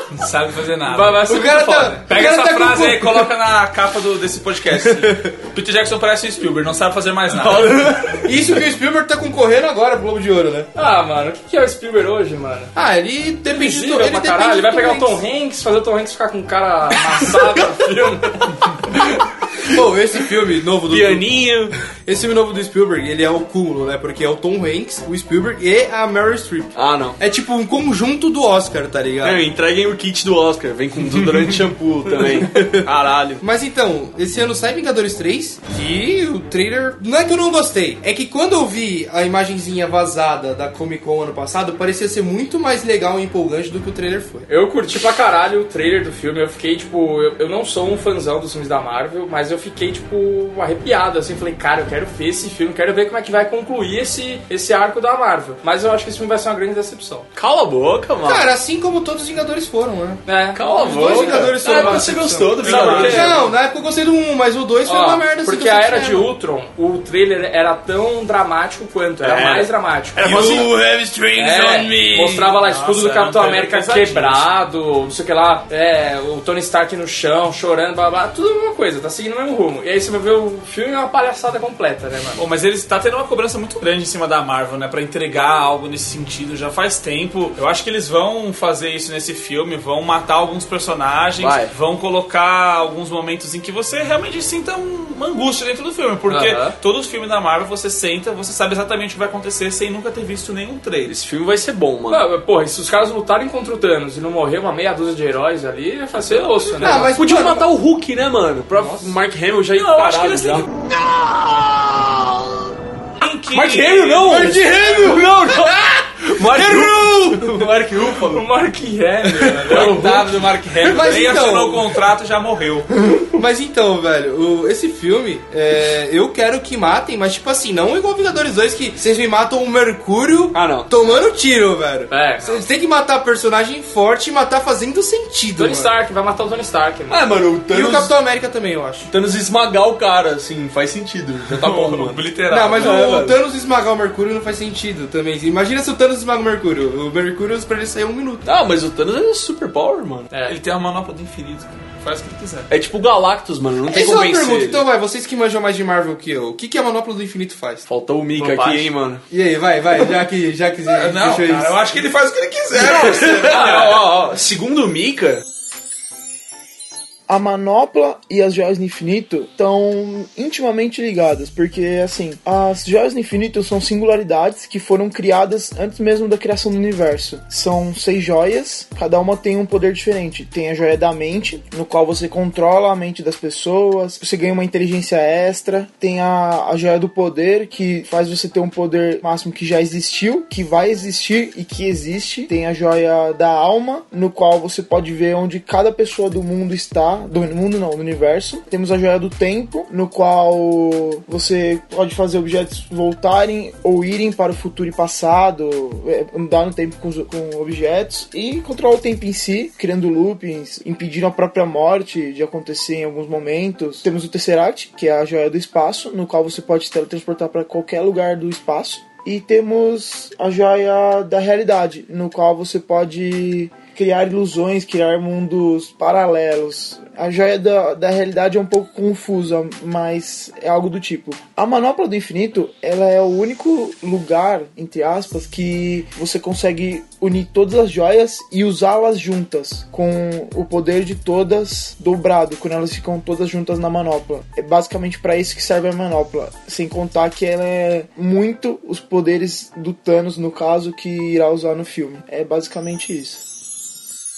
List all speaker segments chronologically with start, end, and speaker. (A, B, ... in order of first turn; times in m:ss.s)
0:00.1-0:01.3 A
0:00.9-0:02.1 B
0:01.3-0:03.3 C
0:02.1-0:08.0 A
0:04.9-0:05.1 C
0:07.3-0:08.3 D
0:08.2-0:10.7 C
0:10.8-0:12.7 B
0:12.8-0:15.2 C
0:13.5-0:18.6 B
0:19.6-0:29.4 C
0:20.9-0:21.8 D
0:26.8-0:27.2 D
0:29.2-0:33.4 D
0:32.2-0:32.9 C
0:33.4-0:44.5 C
0:44.5-0:57.3 B
0:57.4-0:58.5 D
0:58.2-1:06.3 C
1:00.3-1:03.5 B
1:00.6-1:03.4 D
1:02.6-1:03.4 A
1:04.9-1:10.6 B
1:09.2-1:12.5 D
1:10.2-1:10.7 C
1:11.4-1:22.4 B
1:12.4-1:14.5 A
1:22.4-1:41.2 A
1:31.4-1:31.7 D
1:36.3-1:36.8 B
1:41.1-1:42.3 D
1:42.1-1:47.2 B
1:46.8-1:47.7 C
1:46.8-1:52.7 D
1:49.8-1:50.7 A
1:53.2-1:54.6 A
1:53.5-1:58.5 D
1:54.2-1:55.8 C
1:56.4-1:57.7 C
1:58.3-2:00.0 B
1:59.6-2:02.9 A
1:59.6-2:01.1 D
2:00.8-2:02.0 C
2:03.3-2:15.9 C
2:10.5-2:10.9 D
2:12.1-2:12.6 B
2:15.6-2:17.2 B
2:17.1-2:18.1 D
2:17.7-2:19.1 C
2:19.1-2:23.4 D
2:21.6-2:23.0 A
2:22.5-2:28.5 C
2:28.4-2:30.3 D
2:30.3-2:30.6 B
2:30.5-2:32.7 A
2:32.7-2:34.9 D
2:33.9-2:37.8 C
2:37.9-2:39.2 D
2:38.4-2:38.9 B
2:39.3-2:42.0 C
2:40.9-2:44.1 A
2:42.8-2:45.4 D
2:47.3-4:13.4 E